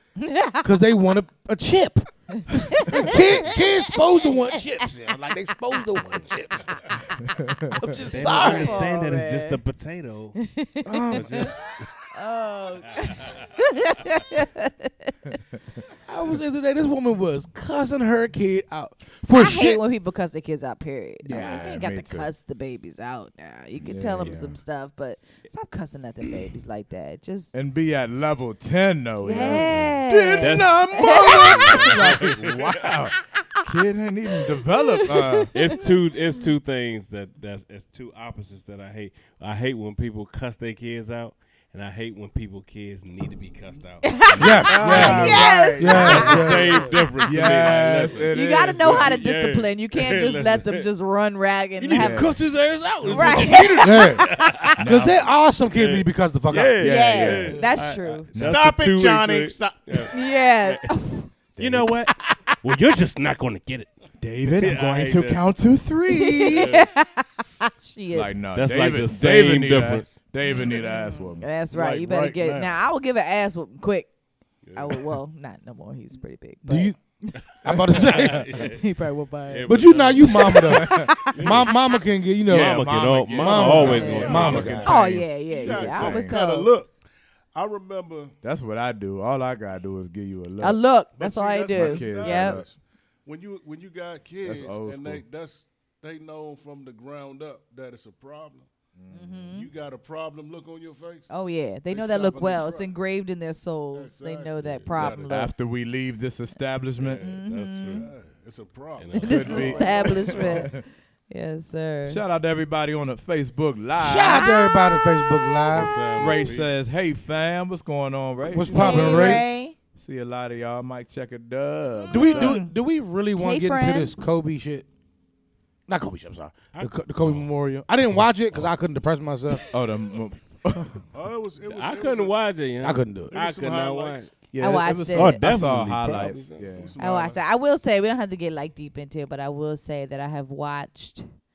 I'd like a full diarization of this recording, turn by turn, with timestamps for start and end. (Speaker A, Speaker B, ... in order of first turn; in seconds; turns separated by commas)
Speaker A: 0.2-0.7, Speaker B: 0.6-8.9, Speaker A: 2.5-4.5, Speaker C: 7.3-8.0, Speaker A: 7.8-9.6, Speaker D: 8.1-10.4, Speaker A: 10.4-11.6, Speaker B: 10.8-11.7, Speaker D: 11.1-11.8, Speaker A: 12.1-15.4, Speaker B: 16.1-19.8, Speaker A: 19.3-27.5, Speaker B: 21.2-21.6, Speaker C: 21.3-22.3, Speaker C: 23.8-24.6, Speaker C: 27.5-35.7, Speaker A: 29.2-32.5, Speaker D: 29.4-29.7, Speaker D: 30.4-33.0, Speaker A: 34.5-35.7, Speaker D: 35.5-50.9, Speaker A: 44.0-46.9, Speaker B: 44.4-47.1, Speaker C: 44.6-46.7, Speaker C: 47.2-49.2, Speaker A: 48.1-52.4, Speaker D: 51.8-54.8, Speaker C: 51.9-52.4, Speaker A: 53.0-54.8, Speaker B: 53.8-56.9, Speaker C: 54.8-55.3, Speaker D: 55.6-60.9, Speaker C: 56.8-57.6, Speaker A: 56.8-58.4, Speaker C: 58.3-58.6, Speaker E: 58.4-60.1, Speaker A: 60.1-61.3, Speaker D: 61.5-63.9, Speaker C: 61.6-61.9, Speaker B: 62.2-62.5, Speaker C: 64.2-66.7, Speaker D: 64.5-65.5, Speaker A: 66.1-68.3, Speaker D: 66.5-66.9, Speaker C: 68.1-71.5, Speaker D: 68.5-70.1, Speaker A: 70.4-74.1, Speaker E: 71.7-72.8, Speaker D: 74.6-75.1, Speaker A: 74.7-81.7, Speaker B: 76.6-78.5, Speaker D: 78.0-78.8, Speaker D: 79.5-81.8, Speaker B: 79.7-84.9, Speaker C: 80.8-81.1, Speaker C: 82.5-86.4, Speaker D: 82.5-85.0, Speaker A: 83.6-86.7, Speaker E: 83.7-87.0, Speaker E: 87.5-88.3, Speaker C: 88.4-90.8, Speaker A: 90.6-92.6, Speaker E: 91.1-98.7, Speaker C: 91.7-92.6, Speaker C: 94.4-95.2, Speaker C: 99.0-99.5, Speaker A: 99.1-99.7, Speaker E: 99.5-101.3, Speaker A: 101.3-105.5, Speaker E: 101.9-102.9, Speaker E: 103.9-105.4, Speaker C: 105.3-107.2, Speaker D: 107.0-108.1, Speaker A: 107.2-108.1, Speaker E: 107.9-110.7, Speaker D: 109.0-110.6, Speaker A: 109.2-112.2, Speaker C: 109.2-110.8, Speaker C: 112.0-114.5, Speaker B: 114.0-115.9, Speaker A: 114.2-115.1, Speaker D: 115.7-116.7, Speaker C: 116.1-122.6, Speaker A: 116.2-116.7, Speaker B: 118.5-119.4, Speaker A: 118.7-119.8, Speaker A: 122.1-122.7, Speaker B: 122.1-124.8, Speaker A: 123.4-124.1, Speaker B: 125.9-129.6, Speaker D: 126.7-127.5, Speaker C: 129.7-131.0, Speaker E: 131.1-132.3, Speaker D: 131.6-134.3, Speaker B: 132.8-133.3, Speaker E: 133.3-134.3, Speaker C: 134.5-136.9, Speaker A: 134.6-135.4, Speaker D: 135.1-136.7, Speaker E: 136.6-137.4, Speaker A: 137.0-141.3